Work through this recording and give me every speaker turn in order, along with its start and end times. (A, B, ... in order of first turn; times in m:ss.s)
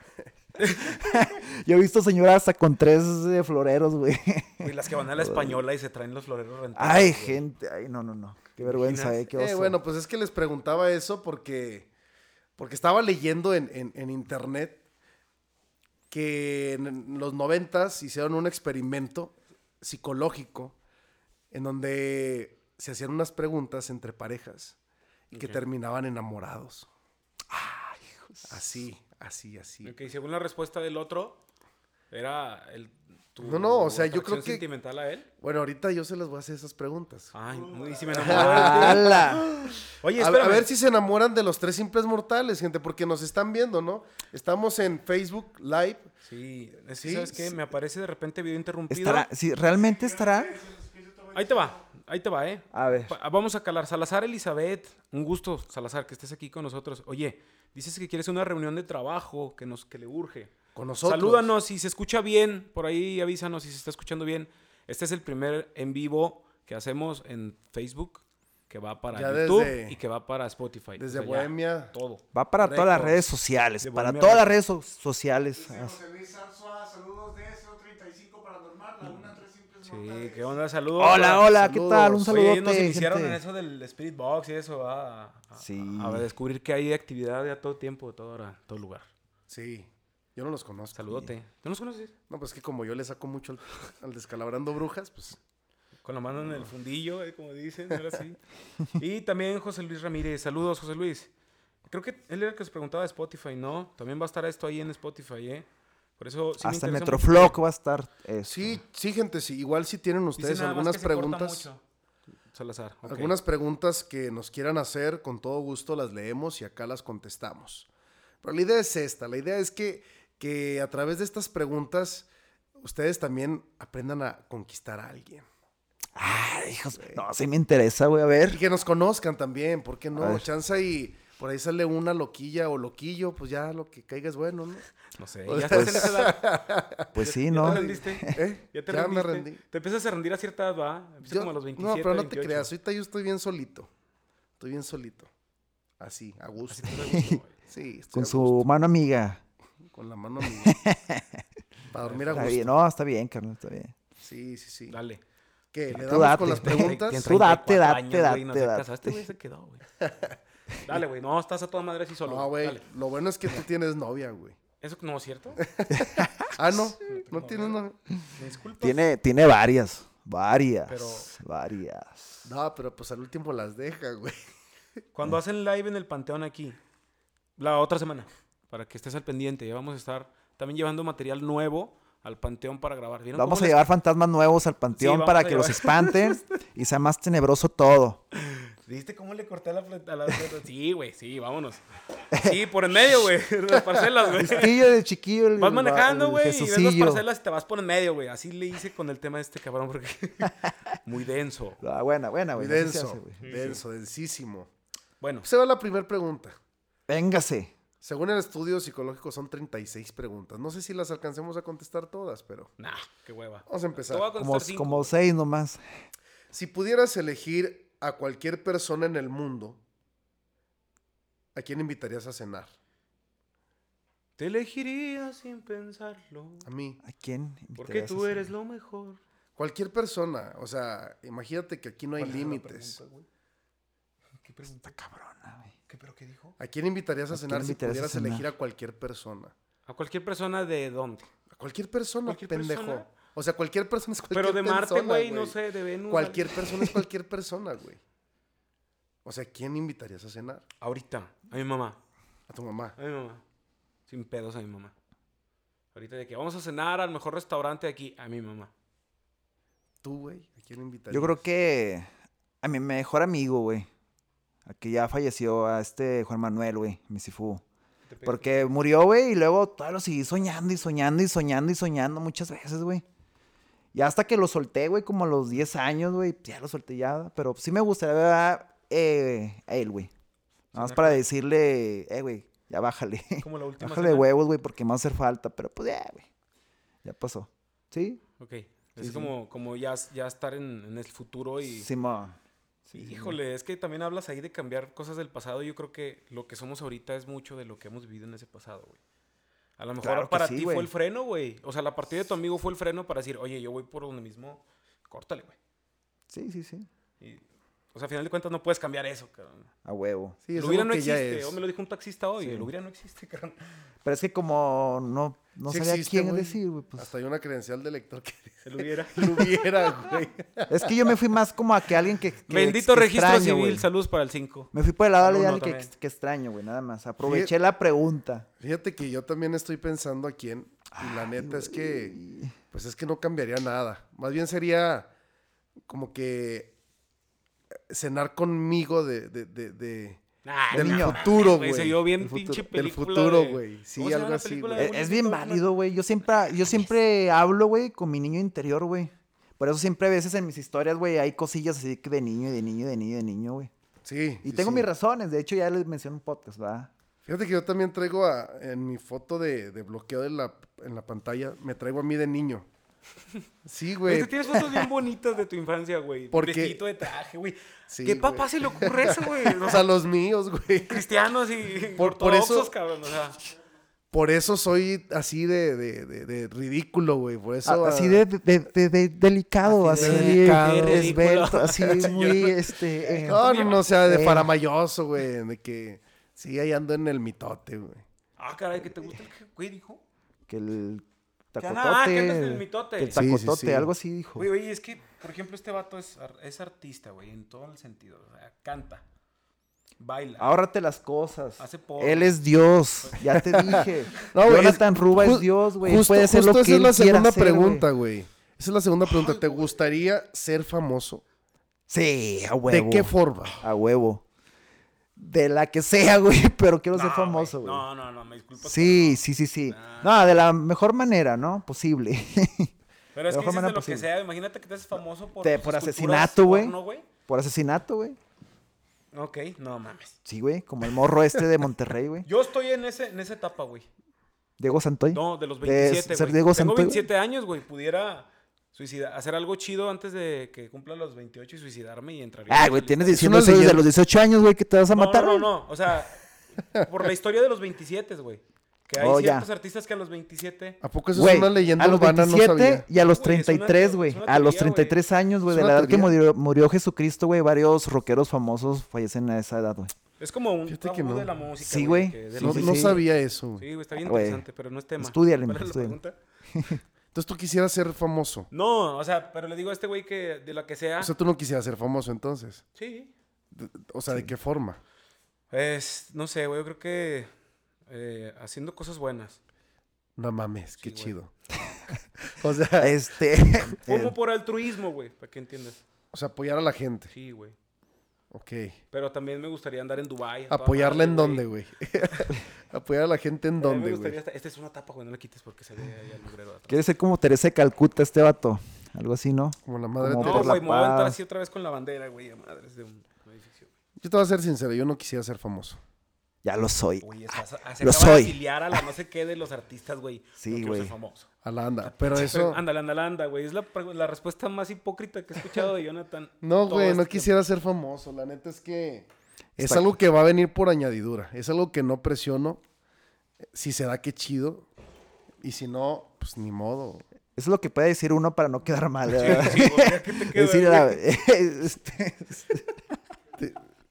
0:00.6-0:01.0 A
0:00.8-0:05.6 B
0:04.6-0:07.4 A
0:06.8-0:09.8 B
0:08.6-0:09.2 A
0:09.3-0:11.9 C
0:12.6-0:14.8 C
0:16.1-0:20.7 C
0:21.5-0:24.8 C
0:25.3-0:25.6 A
0:25.3-0:26.9 C
0:27.5-0:28.5 B
0:28.5-0:29.9 C
0:29.8-0:31.4 A
0:32.1-0:35.3 A
0:33.4-0:34.6 C
0:35.4-0:37.3 C
0:37.3-0:40.7 A
0:37.5-0:38.3 D
0:38.1-0:39.3 C
0:38.1-0:39.5 B
0:40.2-0:46.1 C
0:46.2-0:49.3 A
0:47.0-0:47.6 C
0:48.9-0:50.6 B
0:49.6-0:51.8 D
0:51.3-1:13.2 A
0:52.7-0:53.1 B
1:00.7-1:01.5 C
1:09.1-1:10.0 C
1:11.0-1:11.9 C
1:12.3-1:16.0 B
1:13.8-1:14.5 A
1:15.6-1:20.6 D
1:19.8-1:21.5 A
1:21.0-1:23.4 B
1:21.4-1:22.3 C
1:22.2-1:29.1 A
1:25.6-1:26.3 B
1:29.5-1:31.0 C
1:30.9-1:32.1 A
1:32.3-1:35.4 C
1:36.0-1:38.4 A
1:38.9-1:41.3 A
1:41.9-1:45.7 A
1:46.2-1:47.6 A
1:46.6-1:48.8 B
1:48.4-1:51.7 C
1:50.4-1:51.8 A
1:52.5-1:53.4 A
1:53.0-1:57.9 C
1:58.4-2:02.3 C
2:02.8-2:05.4 C
2:06.1-2:08.6 B
2:08.5-2:14.9 C
2:10.1-2:10.5 B
2:15.1-2:16.6 A
2:15.5-2:19.6 C
2:15.7-2:16.1 B
2:17.1-2:18.4 B
2:17.2-2:22.7 A
2:21.3-2:23.9 C
2:24.6-2:25.3 C
2:26.0-2:27.0 C
2:26.7-2:27.5 A
2:27.1-2:27.4 B
2:27.7-2:28.7 C
2:28.1-2:29.4 B
2:29.9-2:30.8 C
2:30.4-2:31.4 B
2:31.9-2:32.7 C
2:32.0-2:32.6 A
2:32.3-2:33.9 B
2:34.2-2:35.0 C
2:34.9-2:35.2 A
2:35.7-2:37.2 C
2:35.9-2:39.2 B
2:36.5-2:39.8 A
2:40.8-2:42.8 A
2:42.2-2:44.6 C
2:44.8-2:45.6 A
2:45.6-2:48.0 C
2:45.9-2:46.4 B
2:47.0-2:47.8 A
2:48.4-2:49.0 A
2:48.8-2:52.4 B
2:50.9-2:51.3 A
2:52.4-2:54.4 C
2:55.1-2:56.8 A
2:57.6-3:03.8 A
3:03.3-3:08.2 B
3:05.0-3:06.3 A
3:08.3-3:14.8 A
3:14.4-3:17.2 B
3:15.6-3:21.8 A
3:21.8-3:23.7 B
3:22.6-3:24.7 C
3:23.4-3:23.8 A
3:25.2-3:25.5 A
3:25.4-3:26.6 C
3:27.1-3:27.7 B
3:28.0-3:32.7 C
3:32.8-3:35.1 A
3:33.7-3:34.3 C
3:34.4-3:35.8 B
3:36.5-3:39.8 C
3:41.5-3:42.7 C
3:44.4-3:46.7 A
3:46.6-3:47.0 C
3:47.0-3:48.5 B
3:47.8-3:49.2 A
3:49.6-3:53.0 C
3:52.2-3:53.3 A
3:54.4-3:55.0 A
3:54.8-3:55.7 B
3:55.9-3:56.6 A
3:56.6-3:59.5 C
3:57.3-3:58.4 B
3:59.9-4:01.3 A
4:01.5-4:05.6 C
4:02.2-4:03.1 A
4:04.3-4:06.6 A
4:06.1-4:08.0 C
4:09.2-4:10.6 C
4:10.8-4:12.0 A
4:12.5-4:12.9 C
4:13.0-4:13.4 A
4:14.1-4:14.9 A
4:15.9-4:18.7 A
4:20.0-4:21.4 C
4:21.1-4:22.1 B
4:22.6-4:23.9 B
4:24.6-4:27.6 B
4:28.0-4:28.7 A
4:28.2-4:33.0 B
4:33.9-4:40.1 B
4:40.7-4:41.2 A
4:40.7-4:46.3 B
4:43.4-4:44.3 A
4:47.0-4:48.2 B
4:48.4-4:51.9 A
4:49.0-4:49.3 B
4:51.6-4:53.4 B
4:52.9-4:59.0 A
4:59.8-5:05.6 A
5:00.0-5:00.9 B
5:06.3-5:06.9 B
5:07.9-5:09.7 A
5:09.8-5:10.4 B
5:10.4-5:11.6 C
5:10.5-5:13.6 A
5:12.4-5:12.7 B
5:14.0-5:17.1 B
5:15.7-5:20.9 C
5:18.6-5:19.5 A
5:20.7-5:23.8 B
5:22.5-5:25.9 A
5:24.7-5:28.4 B
5:27.2-5:27.5 C
5:28.6-5:32.2 C
5:30.9-5:32.5 B
5:32.7-5:35.1 C
5:35.9-5:36.7 C
5:37.9-5:44.9 C
5:40.4-5:45.6 A
5:40.7-5:41.2 B
5:44.8-5:53.7 B
5:54.0-5:54.9 C
5:54.4-5:56.9 B
5:57.2-6:02.6 C
6:03.6-6:04.3 C
6:04.1-6:09.9 A
6:06.3-6:06.8 C
6:07.9-6:11.1 C
6:10.8-6:13.4 A
6:11.9-6:12.7 C
6:14.1-6:18.2 C
6:17.6-6:24.5 B
6:19.6-6:24.0 A
6:19.8-6:21.2 C
6:21.8-6:22.1 C
6:23.2-6:28.0 C
6:28.4-6:30.0 A
6:30.5-6:34.5 B
6:31.6-6:33.2 A
6:33.1-6:33.9 C
6:34.4-6:39.0 A
6:40.0-6:40.5 A
6:40.4-6:47.9 B
6:41.6-6:42.4 A
6:43.0-6:44.2 A
6:43.3-6:51.2 C
6:49.1-6:49.7 A
6:51.9-6:54.2 B
6:52.7-6:53.6 C
6:55.2-6:57.8 B
6:56.9-7:00.1 A
6:58.6-7:02.7 B
7:03.1-7:07.1 A
7:03.3-7:04.1 B
7:05.4-7:08.2 B
7:09.1-7:10.2 A
7:10.2-7:12.3 B
7:12.2-7:13.9 A
7:14.6-7:17.1 B
7:15.1-7:23.2 A
7:22.5-7:25.5 B
7:23.1-7:23.9 C
7:24.9-7:30.8 A
7:29.0-7:29.5 B
7:30.8-7:32.8 C
7:31.1-7:39.9 B
7:33.0-7:35.0 A
7:35.5-7:36.2 C
7:40.2-7:43.0 A
7:40.7-7:41.3 C
7:41.6-7:43.0 B
7:42.4-7:43.6 C
7:43.6-7:46.2 A
7:44.0-7:44.4 B
7:45.0-7:46.0 B
7:46.5-7:46.8 B
7:47.1-7:48.5 C
7:48.5-7:51.1 A
7:51.0-7:52.6 C
7:52.8-7:53.1 A
7:53.5-7:54.8 C
7:55.5-7:57.3 A
7:57.9-7:59.4 A
8:00.2-8:01.3 C
8:00.8-8:01.2 A
8:02.3-8:03.0 C
8:02.8-8:04.1 B
8:03.8-8:05.8 A
8:06.1-8:07.1 C
8:07.1-8:07.6 A
8:08.3-8:08.8 C
8:08.9-8:11.4 A
8:10.5-8:14.2 C
8:13.6-8:16.8 A
8:16.7-8:21.2 B
8:19.6-8:20.6 C
8:20.2-8:23.7 A
8:24.0-8:25.8 C
8:26.4-8:28.8 B
8:27.0-8:31.3 A
8:30.4-8:30.9 B
8:31.4-8:32.6 C
8:31.9-8:37.4 A
8:36.4-8:42.6 C
8:39.6-8:39.9 B
8:43.5-8:44.6 C
8:45.4-8:47.0 C
8:47.4-8:52.7 B
8:49.1-8:51.0 A